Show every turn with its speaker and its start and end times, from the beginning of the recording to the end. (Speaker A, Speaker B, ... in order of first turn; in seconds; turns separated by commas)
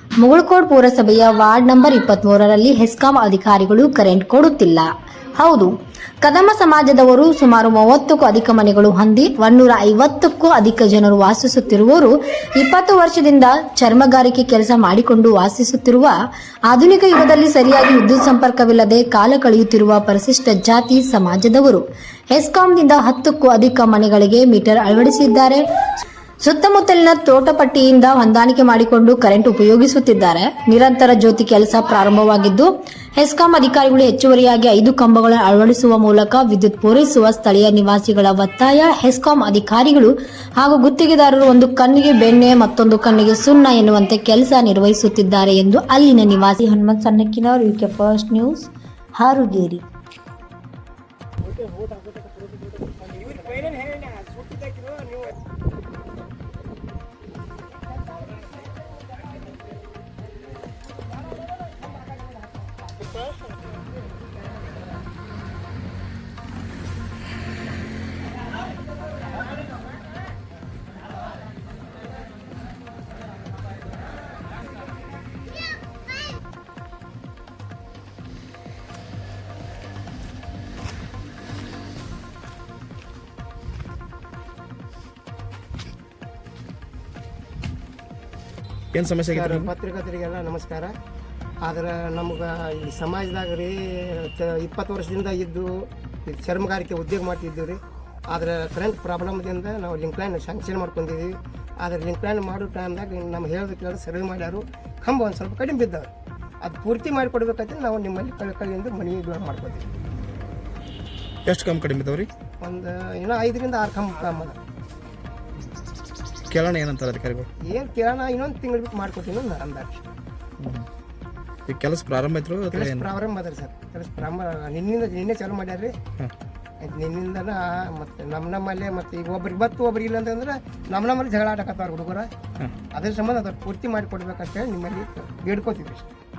Speaker A: 0.2-16.1, Speaker A: 16.7-25.6, Speaker A: 26.4-49.8, Speaker B: 53.1-54.9, Speaker C: 88.9-89.7, Speaker B: 89.3-90.9, Speaker B: 91.6-109.8, Speaker C: 111.4-112.3, Speaker B: 112.6-114.6, Speaker C: 116.5-117.5, Speaker B: 117.6-120.1, Speaker C: 120.6-120.8, Speaker C: 121.7-123.1, Speaker B: 122.7-125.9, Speaker B: 126.8-132.3, Speaker B: 132.9-136.1